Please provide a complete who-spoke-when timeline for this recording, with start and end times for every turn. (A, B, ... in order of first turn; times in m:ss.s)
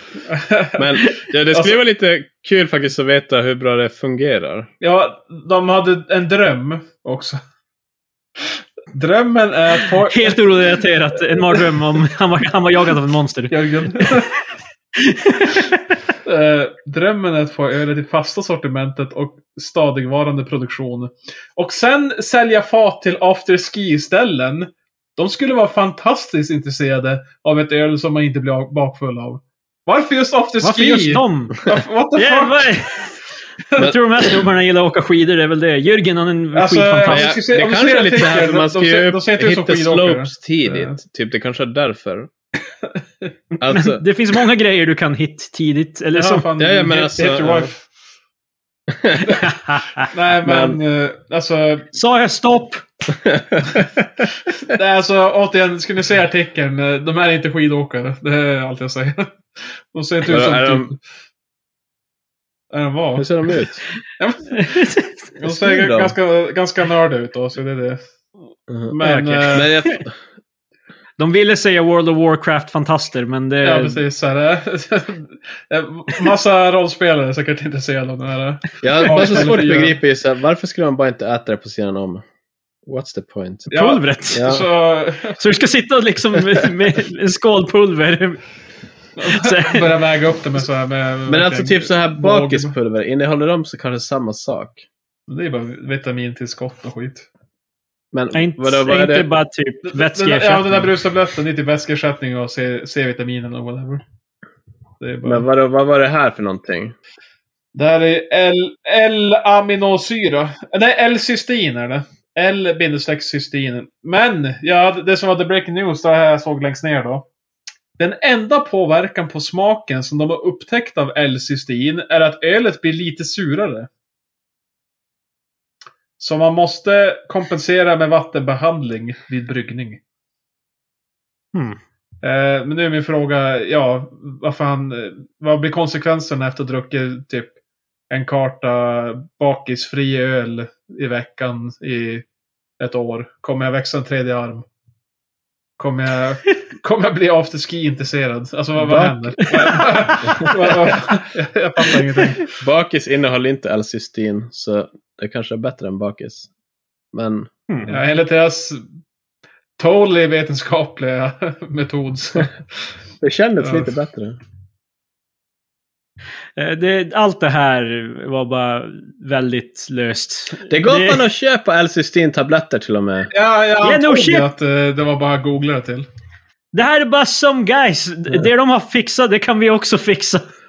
0:00.3-0:00.9 A
0:00.8-0:04.7 B
0:01.5-0:01.8 A
0:04.8-0:07.4 A
0:08.9-0:10.6 A
0:10.0-0:14.2 C
0:13.5-0:14.3 A
0:15.0-0:15.8 C
0:16.2-0:32.8 A
0:30.6-0:31.6 C
0:32.1-0:33.2 C
0:33.7-0:37.3 C
0:36.5-0:41.0 A
0:37.1-0:42.3 B
0:43.6-0:44.0 B
0:43.6-0:46.5 C
0:46.1-0:47.8 A
0:46.6-0:47.7 B
0:48.9-0:49.4 B
0:49.3-0:50.1 C
0:50.0-0:51.9 A
0:50.4-0:50.8 B
0:51.9-0:52.8 C
0:53.1-0:54.0 B
0:54.6-1:01.0 A
1:00.2-1:00.9 B
1:02.7-1:03.3 A
1:03.2-1:03.8 B
1:04.2-1:04.8 A
1:04.5-1:05.3 C
1:05.4-1:08.0 A
1:05.4-1:06.1 B
1:08.7-1:08.9 B
1:08.9-1:09.7 A
1:09.0-1:10.0 C
1:09.5-1:10.1 B
1:11.2-1:14.0 C
1:13.6-1:20.0 A
1:18.8-1:22.2 B
1:19.1-1:19.4 C
1:22.9-1:23.7 B
1:23.7-1:25.4 A
1:23.7-1:24.5 C
1:24.3-1:24.6 B
1:25.4-1:28.4 C
1:29.2-1:32.7 A
1:29.3-1:29.9 C
1:31.3-1:34.8 B
1:35.3-1:37.2 A
1:38.1-1:39.3 B
1:38.3-1:40.9 C
1:39.8-1:44.0 A
1:45.0-1:45.4 A
1:45.2-1:46.9 B
1:47.7-1:57.2 A
1:58.0-2:03.9 A
2:06.2-2:10.0 A
2:11.5-2:11.8 C
2:12.2-2:17.5 A
2:18.1-2:22.2 A
2:22.8-2:24.6 A
2:25.8-2:32.5 A
2:28.8-2:29.4 B
2:29.4-2:29.8 C
2:30.2-2:30.8 B
2:31.9-2:32.3 C
2:32.6-2:36.5 B
2:37.1-2:37.5 B
2:37.7-2:38.0 C
2:37.9-2:38.8 A
2:39.8-2:42.6 A
2:43.2-2:44.4 B
2:43.6-2:43.9 A
2:46.6-2:51.2 C
2:50.7-2:53.3 B
2:53.3-2:56.1 A
2:53.8-2:54.5 C
2:56.7-3:00.5 C